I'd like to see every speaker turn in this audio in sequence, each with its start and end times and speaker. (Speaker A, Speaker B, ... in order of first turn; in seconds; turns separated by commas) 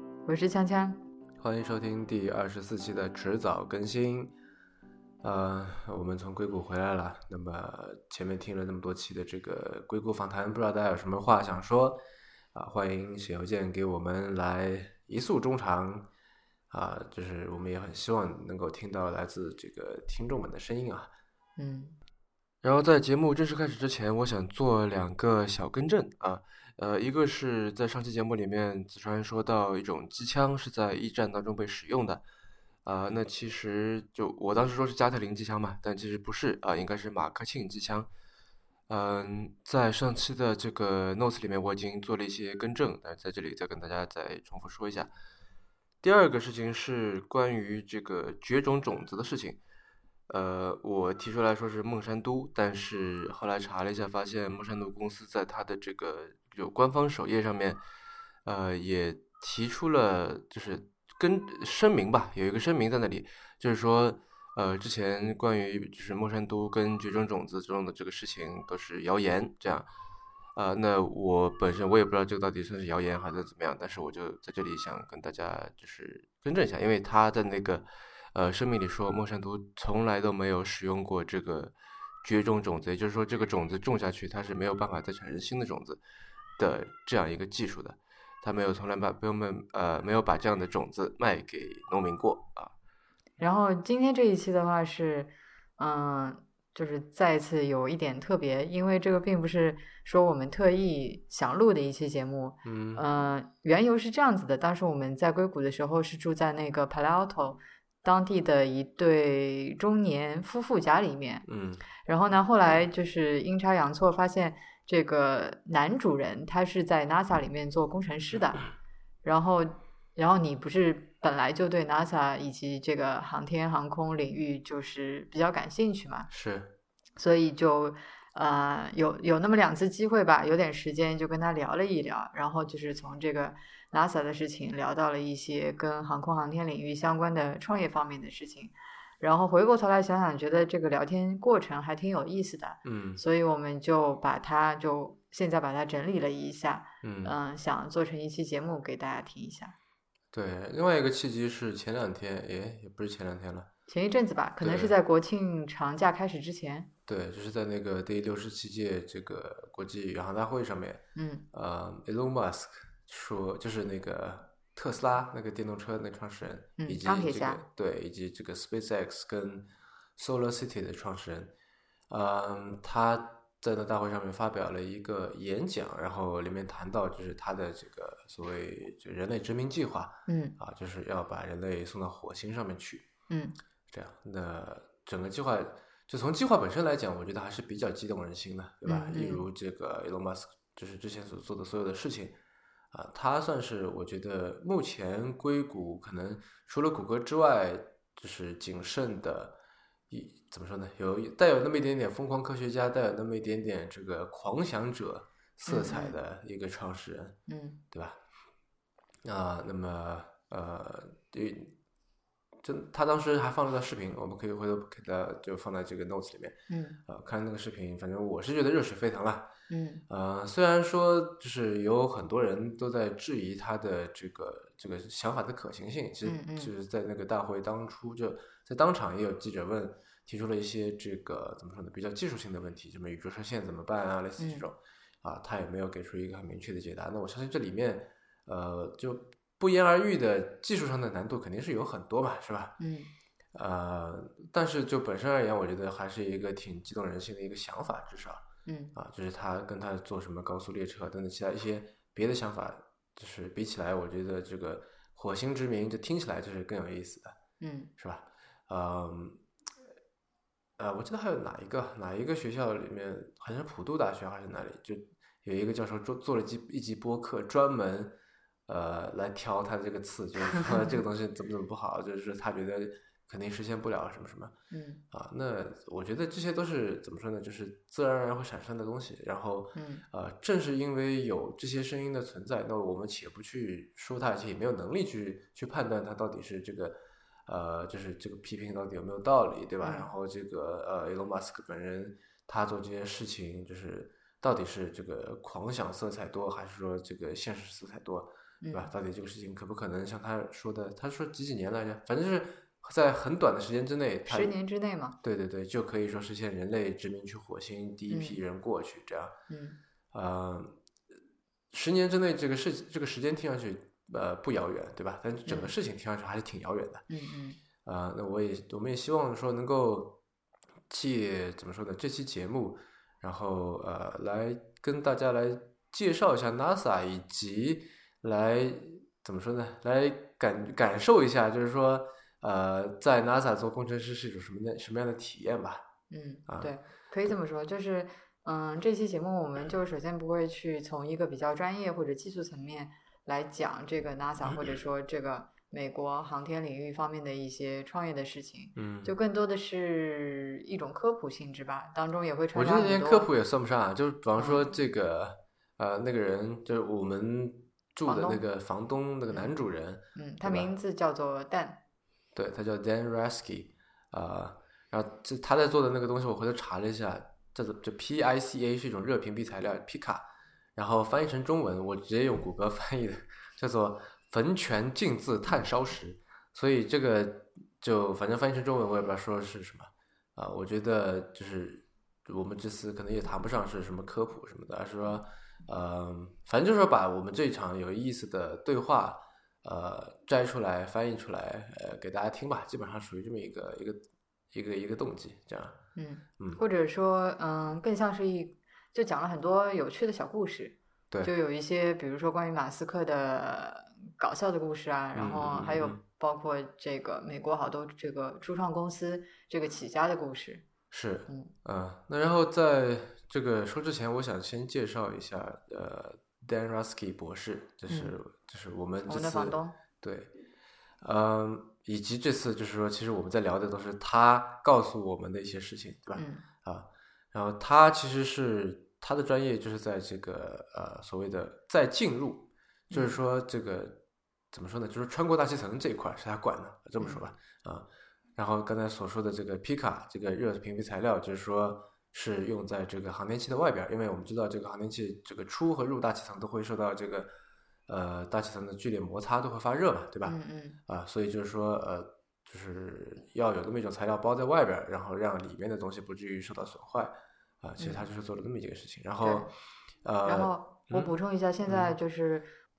Speaker A: 0.3-1.0, Speaker B: 1.4-4.3, Speaker B: 5.2-12.0, Speaker B: 12.5-16.1, Speaker B: 16.7-21.1, Speaker A: 21.6-22.0, Speaker B: 22.6-32.2, Speaker B: 32.9-38.1, Speaker B: 38.9-45.1, Speaker B: 46.0-49.6, Speaker B: 50.3-57.8, Speaker B: 58.5-69.9, Speaker B: 70.6-86.0, Speaker B: 86.6-92.7, Speaker A: 93.4-111.5, Speaker B: 102.7-103.0, Speaker B: 111.5-111.9, Speaker A: 112.0-118.7, Speaker A: 119.2-126.3, Speaker B: 126.3-126.7, Speaker A: 127.2-149.8, Speaker B: 142.8-143.2, Speaker B: 147.0-147.3, Speaker B: 150.3-153.7, Speaker A: 153.9-156.9, Speaker B: 154.6-154.9, Speaker B: 157.1-171.5, Speaker A: 161.2-161.5, Speaker A: 166.8-167.6, Speaker B: 172.1-183.1, Speaker A: 180.3-180.6, Speaker A: 183.3-183.6, Speaker B: 183.9-192.4, Speaker A: 188.8-189.5, Speaker B: 192.9-199.6, Speaker B: 200.1-207.4, Speaker A: 205.7-206.2, Speaker A: 207.5-207.8, Speaker B: 207.9-208.2, Speaker B: 209.2-211.8, Speaker B: 212.6-219.5, Speaker A: 216.7-217.0, Speaker A: 219.7-220.0, Speaker B: 220.1-242.8, Speaker A: 226.2-226.7, Speaker A: 234.4-234.7, Speaker A: 242.8-243.1, Speaker B: 243.5-257.4, Speaker A: 248.7-248.9, Speaker A: 257.6-257.9, Speaker B: 258.0-259.4, Speaker B: 260.8-268.2, Speaker B: 268.7-274.5, Speaker A: 274.7-275.0, Speaker B: 275.1-304.6, Speaker A: 279.8-280.0, Speaker A: 289.8-290.1, Speaker A: 298.6-298.9, Speaker A: 304.3-305.2, Speaker B: 305.2-309.4, Speaker A: 308.1-308.4, Speaker A: 309.5-309.8, Speaker B: 310.1-310.8, Speaker B: 311.7-317.1, Speaker A: 315.5-315.7, Speaker A: 317.1-317.6, Speaker B: 317.8-320.2, Speaker B: 320.9-335.8, Speaker A: 336.1-353.3, Speaker B: 348.8-349.1, Speaker B: 352.5-360.7, Speaker A: 354.4-354.6, Speaker A: 358.1-358.4, Speaker A: 360.1-361.8, Speaker B: 362.4-394.0, Speaker B: 394.5-395.8, Speaker A: 396.0-410.6, Speaker B: 405.1-406.0, Speaker B: 410.9-420.3, Speaker A: 411.3-411.5, Speaker A: 417.9-418.1, Speaker A: 419.1-419.8, Speaker B: 421.0-434.0, Speaker A: 426.2-426.4, Speaker A: 432.9-433.2, Speaker B: 434.5-447.3, Speaker B: 447.9-459.5, Speaker A: 450.2-450.8, Speaker A: 457.8-458.1, Speaker A: 459.2-459.5, Speaker B: 460.0-461.1, Speaker A: 460.2-462.5, Speaker B: 461.6-461.9